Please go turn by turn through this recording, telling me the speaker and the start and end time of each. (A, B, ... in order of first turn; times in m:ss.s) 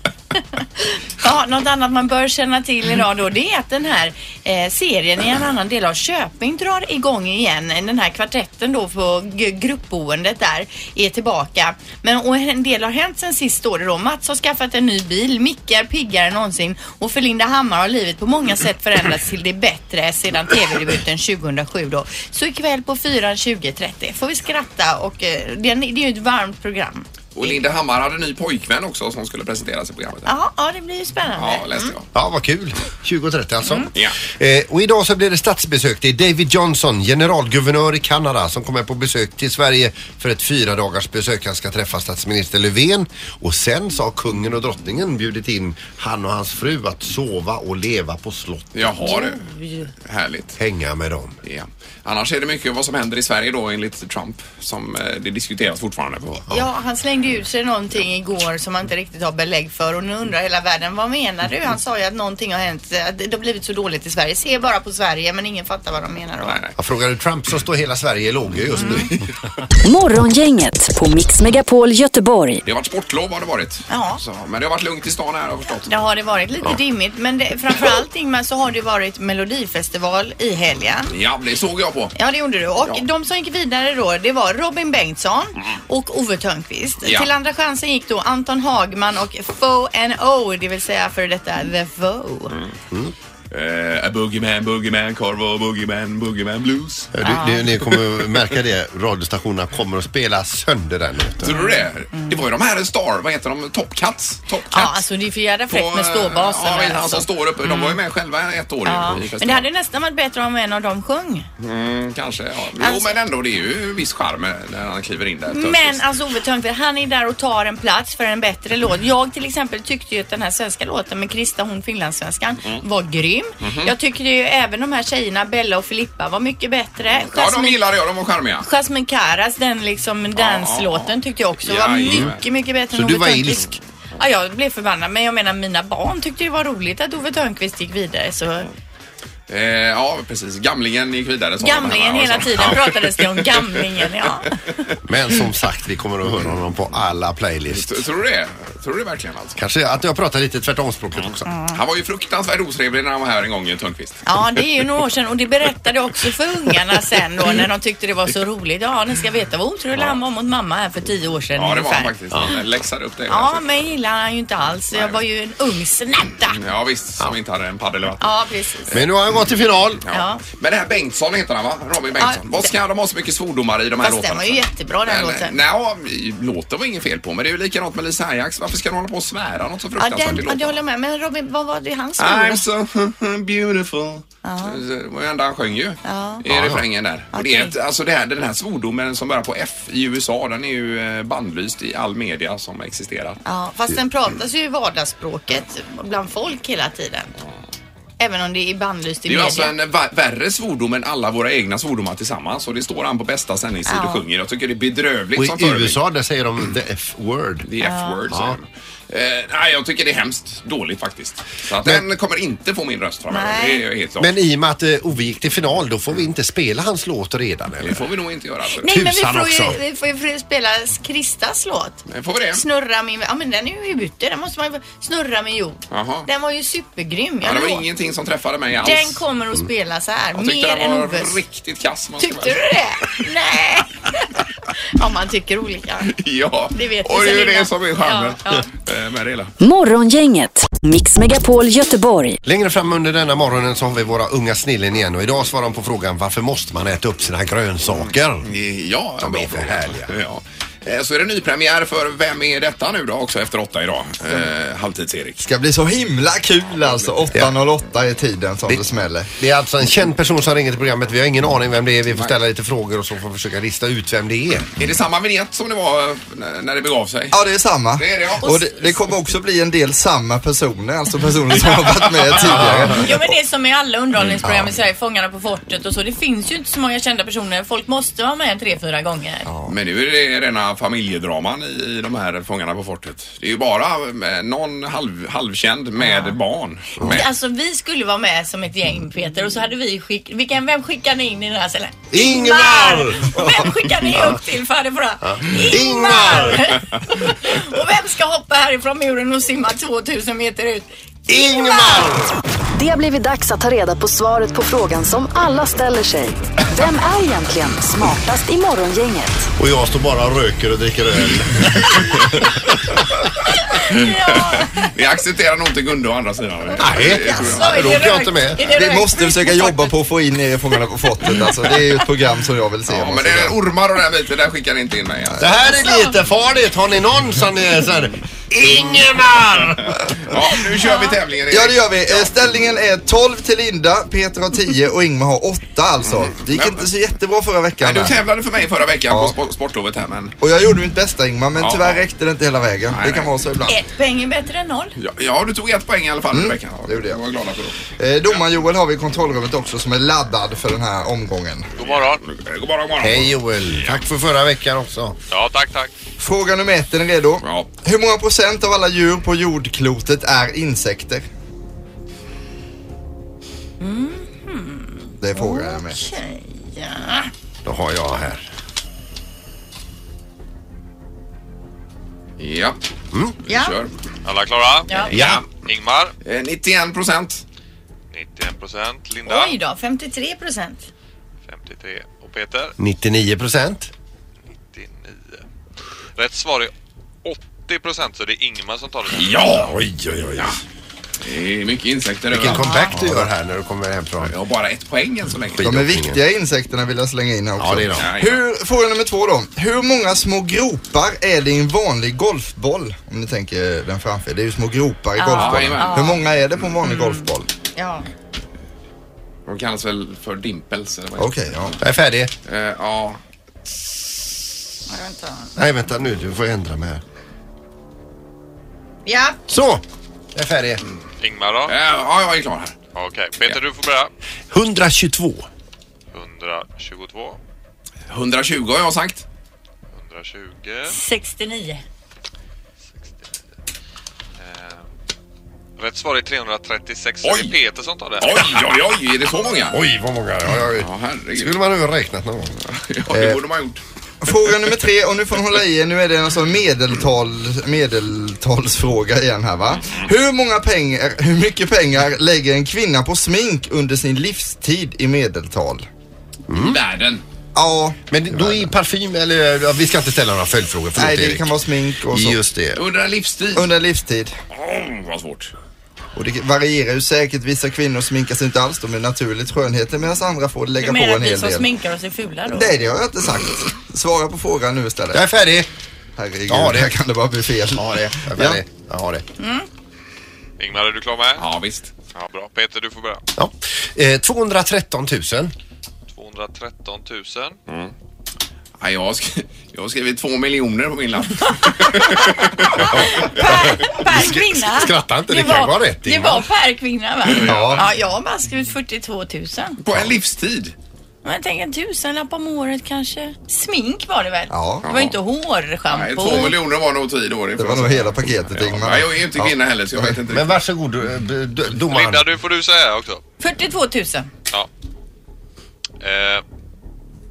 0:00.3-0:27.6 A
0:27.3-0:30.3 B
0:30.2-0:31.9 A
0:31.4-0:32.0 B
0:32.1-0:48.9 C
0:48.7-0:49.4 B
0:49.0-0:49.9 A
0:50.0-0:50.6 B
0:50.6-0:51.4 C
0:51.4-0:56.5 B
0:56.5-1:06.6 A
1:06.4-1:06.7 B
1:06.8-1:09.2 C
1:08.8-1:09.1 A
1:09.8-1:12.6 D
1:12.6-1:16.0 B
1:13.9-1:14.2 A
1:15.9-1:21.1 A
1:21.1-1:22.1 B
1:22.1-1:32.6 A
1:27.0-1:27.3 B
1:33.5-1:37.1 B
1:37.1-1:41.5 C
1:37.2-1:37.6 A
1:41.4-1:45.1 B
1:41.4-1:42.3 A
1:44.7-1:48.0 A
1:45.7-1:49.7 B
1:48.8-1:51.4 A
1:51.6-1:56.0 B
1:52.8-1:53.1 A
1:55.5-2:07.8 A
2:03.6-2:03.9 B
2:07.1-2:08.7 B
2:08.6-2:18.6 A
2:10.3-2:12.4 B
2:12.9-2:13.6 C
2:19.5-2:24.1 B
2:21.6-2:24.8 A
2:25.0-2:28.0 C
2:27.7-2:29.6 B
2:29.6-2:31.5 C
2:31.2-2:34.2 B
2:31.5-2:31.8 A
2:34.2-2:42.1 A
2:41.5-2:43.6 B
2:43.3-2:46.6 A
2:44.9-2:45.2 B
2:46.6-2:48.2 B
2:48.2-2:49.0 A
2:48.9-2:50.0 C
2:50.0-3:00.8 B
2:50.1-2:50.4 A
2:52.2-2:52.7 A
2:54.0-2:55.6 A
3:00.0-3:02.7 A
3:02.2-3:13.4 B
3:04.4-3:04.8 A
3:06.0-3:06.4 A
3:06.5-3:06.8 C
3:07.3-3:07.7 A
3:13.4-3:17.3 A
3:18.2-3:19.7 A
3:19.2-3:26.0 B
3:23.8-3:24.2 A
3:25.4-3:27.7 C
3:27.6-3:34.3 B
3:27.8-3:28.3 A
3:28.3-3:28.6 C
3:33.3-3:33.8 A
3:34.2-3:38.0 C
3:37.8-3:38.9 B
3:38.7-3:47.8 A
3:38.9-3:39.8 C
3:42.1-3:42.6 B
3:45.9-3:46.3 B
3:47.4-3:49.2 B
3:48.8-3:51.4 A
3:50.3-3:52.6 B
3:52.2-3:54.2 A
3:54.9-3:56.1 A
3:56.1-3:59.5 B
3:56.7-3:58.7 A
3:59.6-4:02.4 D
4:02.4-4:08.5 C
4:08.0-4:15.4 B
4:09.2-4:10.2 C
4:15.4-4:19.3 E
4:16.8-4:17.2 B
4:19.3-4:24.8 C
4:24.8-4:27.4 B
4:27.3-4:33.3 E
4:28.0-4:28.6 B
4:28.4-4:28.9 A
4:32.3-4:33.0 B
4:32.8-4:39.5 A
4:34.4-4:34.7 E
4:39.5-4:39.7 E
4:39.7-4:47.3 B
4:46.0-4:46.4 A
4:47.0-5:02.0 A
4:52.1-4:54.4 C
4:55.2-4:56.7 C
5:01.3-5:02.4 C
5:02.7-5:09.5 D
5:09.6-5:12.4 C
5:13.6-5:14.8 A
5:13.9-5:18.0 B
5:16.8-5:18.6 C
5:16.9-5:20.0 A
5:18.7-5:23.5 E
5:22.9-5:25.4 B
5:25.4-5:29.9 C
5:30.2-5:32.3 B
5:31.5-5:38.1 E
5:36.0-5:36.9 B
5:37.8-5:40.3 B
5:40.4-5:43.8 E
5:41.6-5:42.0 B
5:42.9-5:43.3 B
5:43.7-5:45.0 A
5:45.0-5:48.4 B
5:46.3-5:47.2 E
5:48.0-5:51.7 E
5:51.8-5:52.2 F
5:51.8-5:54.0 B
5:53.0-5:55.2 C
5:55.3-5:55.9 F
5:56.2-6:01.2 E
5:57.4-5:57.7 B
6:03.8-6:07.3 A
6:05.2-6:06.0 E
6:07.6-6:08.4 C
6:12.4-6:12.8 B
6:13.4-6:13.9 B
6:13.5-6:13.8 A
6:14.2-6:16.1 F
6:15.0-6:15.5 B
6:15.1-6:15.4 C
6:16.2-6:17.4 B
6:18.1-6:19.5 F
6:19.2-6:20.9 A
6:21.5-6:22.7 F
6:22.8-6:23.9 C
6:24.7-6:25.4 F
6:26.2-6:26.7 F
6:27.2-6:29.5 F
6:29.1-6:29.8 B
6:29.5-6:30.6 C
6:31.2-6:33.3 B
6:32.3-6:34.3 C
6:32.5-6:33.0 A
6:34.2-6:35.8 B
6:35.5-6:36.2 C
6:35.6-6:47.5 E
6:37.6-6:38.1 C
6:38.0-6:38.4 B
6:45.2-6:46.2 A
6:45.4-6:46.2 B
6:46.8-6:48.1 A
6:49.4-6:51.8 B
6:51.2-6:51.8 E
6:51.8-6:52.3 C
6:52.4-6:53.2 B
6:54.9-6:55.6 A
6:55.6-6:57.0 C
6:59.0-6:59.4 A
6:59.5-6:59.8 C
7:00.3-7:00.8 C
7:01.2-7:01.8 F
7:01.7-7:02.8 B
7:02.9-7:04.1 F
7:04.5-7:05.5 C
7:06.1-7:07.4 F
7:08.1-7:09.2 B
7:09.9-7:11.0 F
7:10.9-7:11.8 A
7:14.4-7:14.8 F
7:15.8-7:18.7 F
7:17.2-7:17.5 B
7:18.2-7:19.8 B
7:19.7-7:22.6 C
7:20.7-7:21.6 B
7:22.6-7:23.8 B
7:23.1-7:23.4 C
7:24.2-7:35.8 E
7:36.5-7:36.8 C
7:36.6-7:37.2 B
7:37.5-7:38.6 E
7:38.1-7:41.5 C
7:41.0-7:42.4 E
7:42.1-7:42.8 C
7:42.7-7:43.7 B
7:43.5-7:44.3 E
7:44.5-7:45.5 B
7:46.1-7:51.7 E
7:50.8-7:52.8 A
7:52.5-7:55.2 E
7:55.1-7:55.7 C
7:56.2-7:58.6 E
7:56.5-7:56.9 C
7:57.8-7:59.2 C
7:59.4-7:59.7 A
8:00.6-8:01.4 F
8:01.4-8:01.9 B
8:02.1-8:03.2 F
8:03.4-8:05.5 C
8:06.1-8:07.6 F
8:07.7-8:07.9 B
8:08.8-8:13.1 B
8:12.7-8:16.5 C
8:13.1-8:19.8 A
8:17.2-8:17.8 B
8:17.4-8:17.9 E
8:19.8-8:20.7 B
8:21.2-8:26.6 A
8:24.5-8:24.9 E
8:24.8-8:25.2 B
8:25.9-8:30.5 B
8:27.6-8:30.2 E
8:30.3-8:32.3 C
8:31.9-8:33.2 F
8:33.4-8:34.3 A
8:36.0-8:36.4 F